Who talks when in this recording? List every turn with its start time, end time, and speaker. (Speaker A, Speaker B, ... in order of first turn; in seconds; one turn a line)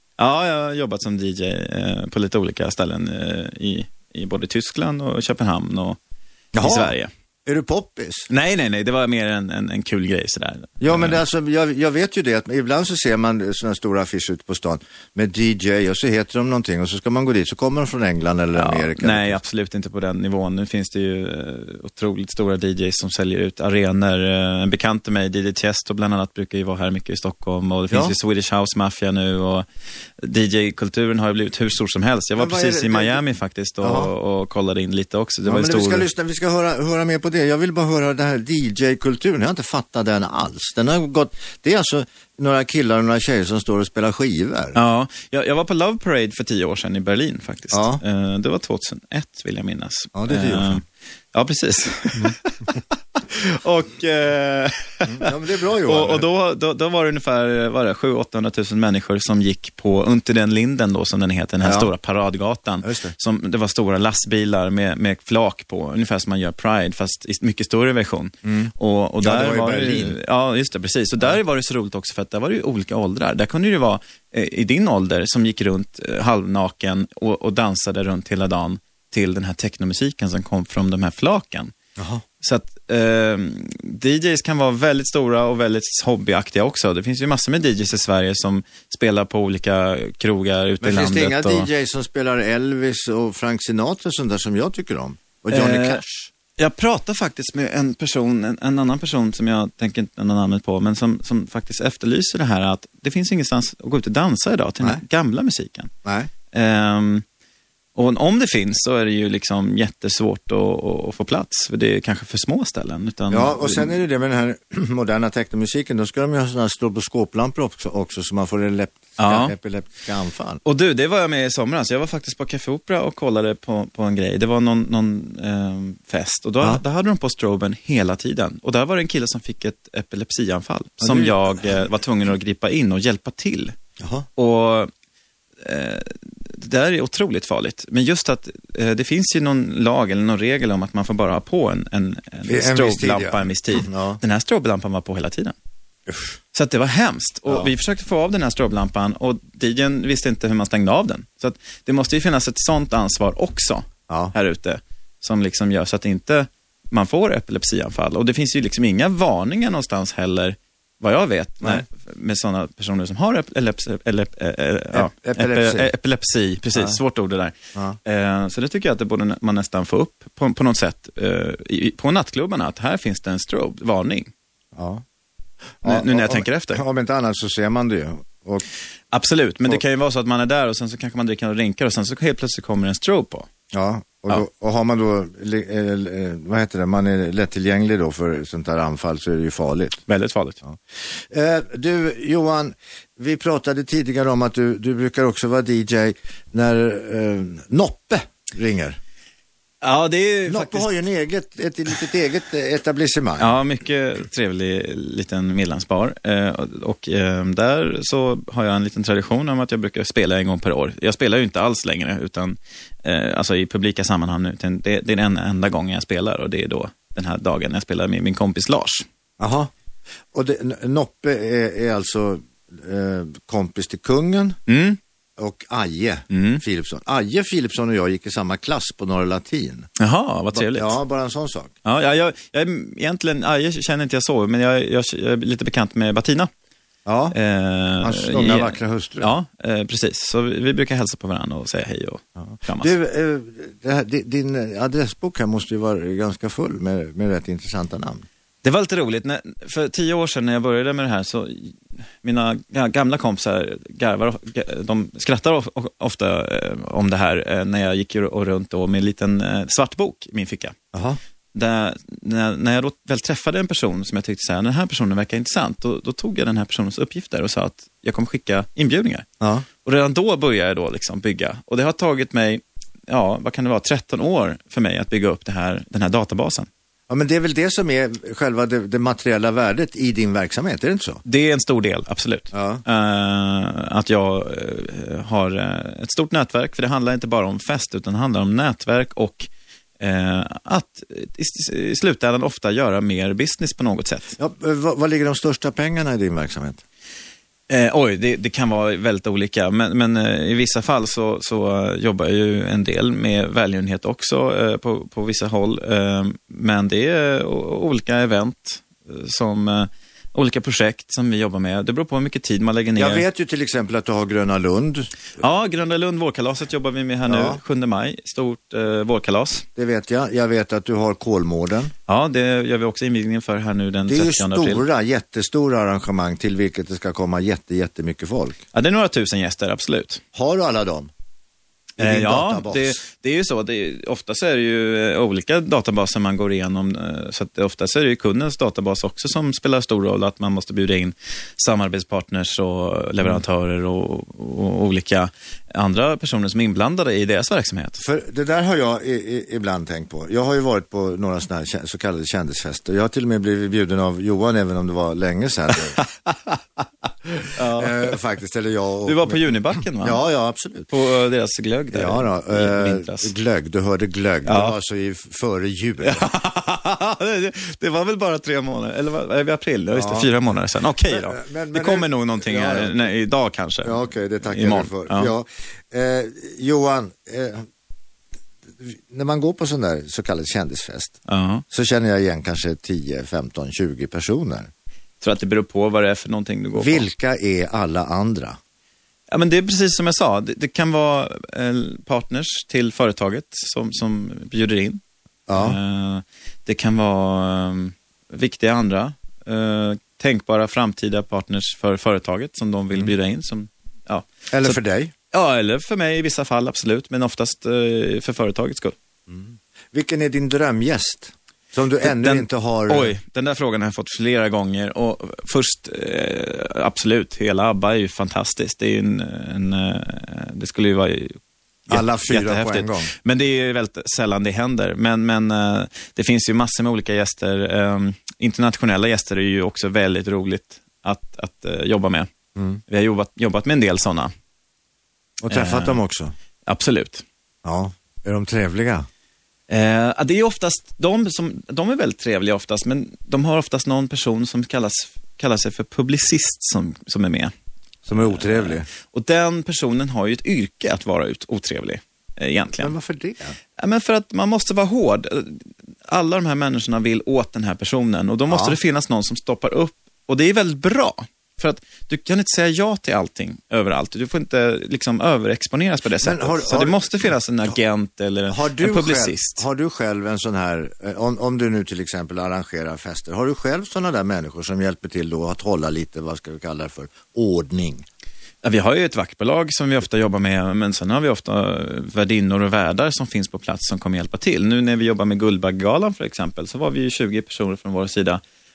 Speaker A: 0.2-6.0
Speaker B: 6.5-6.9
Speaker A: 6.5-7.1
Speaker B: 7.5-8.3
Speaker A: 8.3-11.2
Speaker B: 10.8-19.4
Speaker A: 18.5-29.6
Speaker B: 27.9-28.1
Speaker A: 30.2-36.0
Speaker B: 32.4-33.2
Speaker B: 33.8-34.1
Speaker B: 35.4-44.8
Speaker A: 44.7-55.3
Speaker B: 47.7-48.0
Speaker B: 50.1-50.8
Speaker B: 55.0-56.2
Speaker A: 55.8-81.7
Speaker B: 61.6-61.9
Speaker B: 62.8-63.1
Speaker B: 68.4-70.2
Speaker B: 82.0-82.2
Speaker A: 82.4-91.7
Speaker B: 90.8-96.3
Speaker A: 95.5-96.0
Speaker A: 96.6-105.9
Speaker B: 106.0-106.3
Speaker A: 106.5-107.2
Speaker A: 108.0-113.9
Speaker B: 113.3-120.6
Speaker A: 119.2-119.5
Speaker A: 120.6-133.7
Speaker B: 131.0-131.7
Speaker B: 134.0-134.3
Speaker A: 134.4-134.9
Speaker A: 135.6-145.5
Speaker B: 142.4-144.2
Speaker B: 146.1-146.3
Speaker A: 146.5-167.5
Speaker B: 154.1-154.3
Speaker B: 164.9-165.9
Speaker A: 168.0-174.3
Speaker B: 174.7-175.0
Speaker A: 175.8-176.8
Speaker B: 175.8-178.7
Speaker A: 179.1-183.5
Speaker B: 183.7-190.0
Speaker A: 190.1-190.6
Speaker B: 190.6-199.0
Speaker A: 199.8-200.9
Speaker B: 200.5-203.5
Speaker A: 203.4-219.1
Speaker B: 219.4-219.7
Speaker B: 220.3-224.6
Speaker A: 224.7-225.0
Speaker B: 225.4-229.9
Speaker A: 226.3-226.6
Speaker A: 230.0-230.9
Speaker B: 230.5-231.7
Speaker A: 231.8-236.5
Speaker B: 237.1-237.3
Speaker A: 237.3-242.9
Speaker B: 238.0-239.3
Speaker B: 242.8-248.3
Speaker A: 248.6-260.8
Speaker B: 260.9-261.2
Speaker A: 261.5-269.2
Speaker B: 269.4-269.7
Speaker A: 269.8-276.7
Speaker B: 277.1-281.2
Speaker A: 281.2-289.5
Speaker B: 282.5-282.8
Speaker A: 290.0-294.4
Speaker B: 294.4-296.8
Speaker A: 297.7-313.2
Speaker B: 312.9-315.1
Speaker A: 315.4-319.6
Speaker B: 317.3-317.6
Speaker B: 319.8-321.9
Speaker A: 322.1-324.8
Speaker B: 324.1-328.6
Speaker A: 328.7-330.2
Speaker B: 330.3-331.1
Speaker B: 332.0-333.0
Speaker A: 332.0-348.0
Speaker B: 348.0-356.0
Speaker A: 356.3-356.6
Speaker B: 357.3-360.9
Speaker A: 357.4-358.1
Speaker A: 359.1-360.2
Speaker A: 360.9-363.3
Speaker B: 361.9-366.2
Speaker A: 364.4-364.8
Speaker A: 366.0-373.9
Speaker B: 369.9-370.3
Speaker B: 371.1-373.1
Speaker B: 373.8-377.6
Speaker A: 374.4-375.3
Speaker B: 378.8-381.1
Speaker A: 381.3-381.6
Speaker B: 381.7-384.7
Speaker A: 385.2-387.1
Speaker B: 386.8-388.6
Speaker A: 389.3-395.0
Speaker B: 395.5-395.8
Speaker A: 395.5-404.8
Speaker B: 404.5-405.1
Speaker A: 405.3-408.9
Speaker B: 409.3-413.1
Speaker A: 412.0-432.3
Speaker B: 421.9-423.1
Speaker B: 432.6-432.8
Speaker A: 432.9-434.3
Speaker B: 435.4-436.3
Speaker A: 435.5-436.0
Speaker A: 436.6-437.2
Speaker B: 437.6-439.1
Speaker A: 439.7-447.5
Speaker A: 448.1-452.9
Speaker B: 448.1-448.9
Speaker B: 452.8-453.6
Speaker A: 453.8-469.6
Speaker B: 458.5-458.8
Speaker B: 466.2-467.1
Speaker B: 468.5-478.1
Speaker A: 478.6-488.4